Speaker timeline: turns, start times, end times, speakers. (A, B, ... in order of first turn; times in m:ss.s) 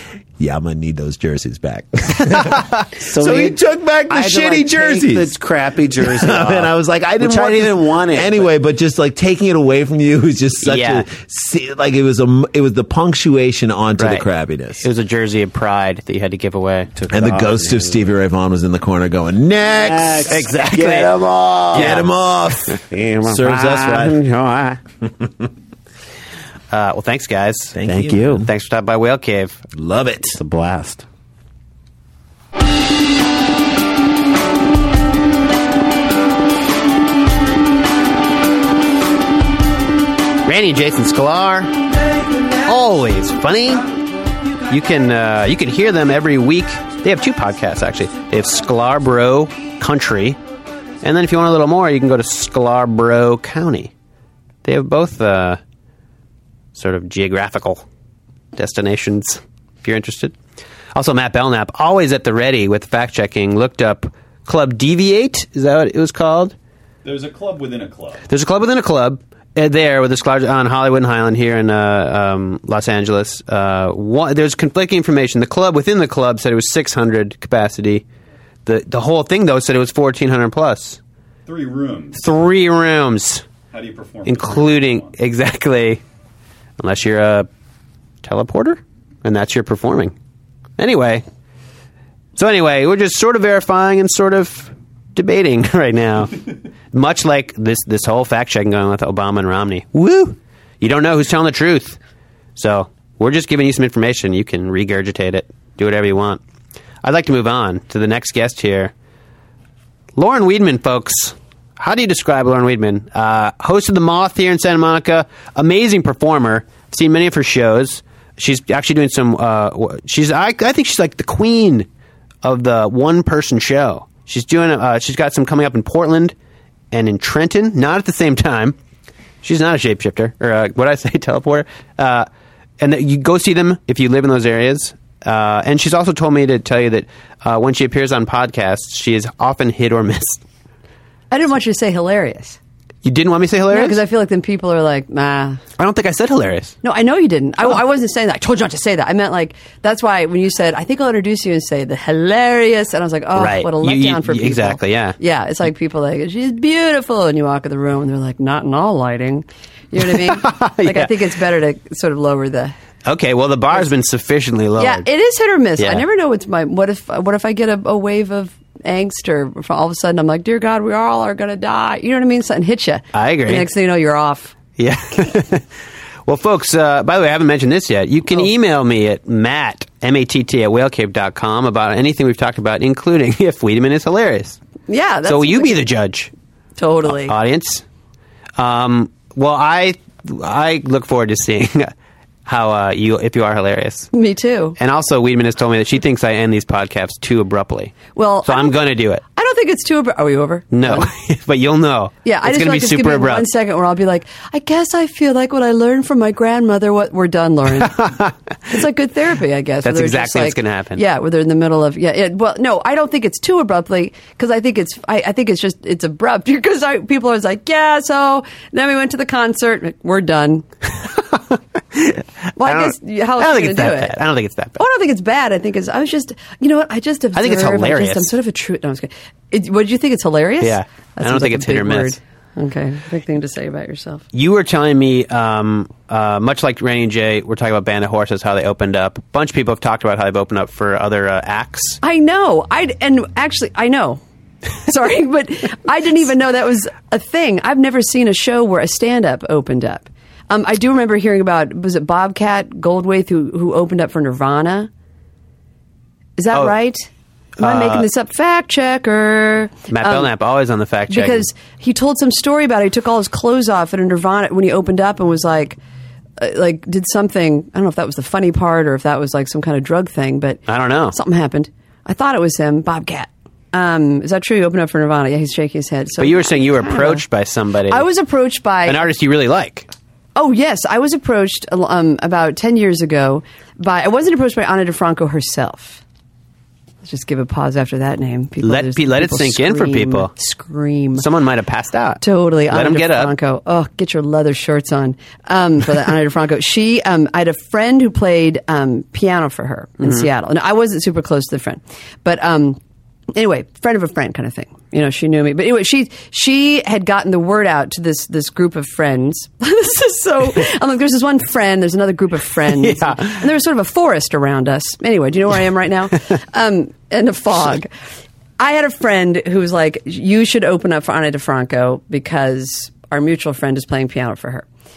0:00.4-0:05.3 A
0:03.0-0:08.5 B
0:06.0-0:14.9 A
0:10.6-0:11.1 C
0:14.0-0:14.3 C
0:14.8-0:16.9 C
0:17.0-0:18.1 B
0:17.1-0:20.4 A
0:19.7-0:22.1 B
0:20.3-0:21.1 C
0:21.7-0:22.1 C
0:21.7-0:24.2 A
0:22.9-0:24.8 B
0:26.7-0:27.8 C
0:27.8-0:28.5 A
0:27.9-0:28.5 B
0:28.4-0:29.6 C
0:29.7-0:30.4 A
0:30.3-0:31.0 B
0:40.4-0:41.8 C
0:42.6-0:43.9 C
0:44.7-0:50.4 C
0:51.0-0:53.9 C
0:54.6-0:55.6 C
0:56.8-0:57.8 C
0:58.5-1:00.4 C
1:00.9-1:06.6 C
1:07.0-1:08.3 D
1:08.3-1:18.0 C
1:18.6-1:21.0 C
1:21.5-1:22.3 D
1:22.1-1:23.4 C
1:23.7-1:25.2 D
1:24.2-1:26.0 C
1:26.8-1:27.5 C
1:28.2-1:30.2 C
1:30.8-1:31.2 C
1:32.4-1:42.0 C
1:42.6-1:46.4 C
1:47.0-1:48.9 C
1:50.2-2:01.9 C
2:02.4-2:06.4 C
2:06.9-2:08.8 C
2:09.4-2:12.3 C
2:12.8-2:20.4 C
2:21.3-2:22.6 E
2:23.0-2:24.0 C
2:23.7-2:25.6 E
2:25.8-2:26.8 C
2:26.8-2:42.8 E
2:33.4-2:35.2 C
2:40.0-2:41.2 C
2:43.0-2:45.1 C
2:44.8-2:54.6 E
2:45.8-2:46.0 C
2:53.1-2:53.7 C
2:54.8-2:55.6 C
2:56.3-3:04.6 C
3:04.9-3:05.9 E
3:05.3-3:06.3 C
3:06.8-3:07.4 E
3:07.0-3:07.8 C
3:08.6-3:11.9 C
3:12.5-3:14.1 C
3:14.1-3:14.8 E
3:14.8-3:19.2 C
3:18.1-3:21.1 E
3:20.7-3:23.5 C
3:22.2-3:28.1 E
3:27.8-3:28.4 C
3:28.7-3:40.7 E
3:29.8-3:31.0 C
3:41.9-3:44.8 C
3:42.6-3:44.2 E
3:44.8-3:54.2 E
3:47.3-3:48.4 C
3:50.6-3:52.2 C
3:54.3-4:02.0 C
4:02.0-4:04.2 E
4:04.9-4:14.9 E
4:16.4-4:20.3 E
4:17.6-4:18.1 C
4:19.9-4:21.5 C
4:21.1-4:25.8 E
4:26.4-4:37.2 E
4:30.7-4:31.2 C
4:36.2-4:38.1 C
4:37.9-4:39.0 E
4:38.8-4:39.9 C
4:40.4-4:46.0 E
4:47.0-4:51.3 E
4:48.6-4:50.3 C
4:51.2-4:53.3 C
4:52.2-5:02.8 E
5:00.0-5:00.3 C
5:03.3-5:17.9 E
5:12.8-5:13.4 C
5:18.6-5:24.6 E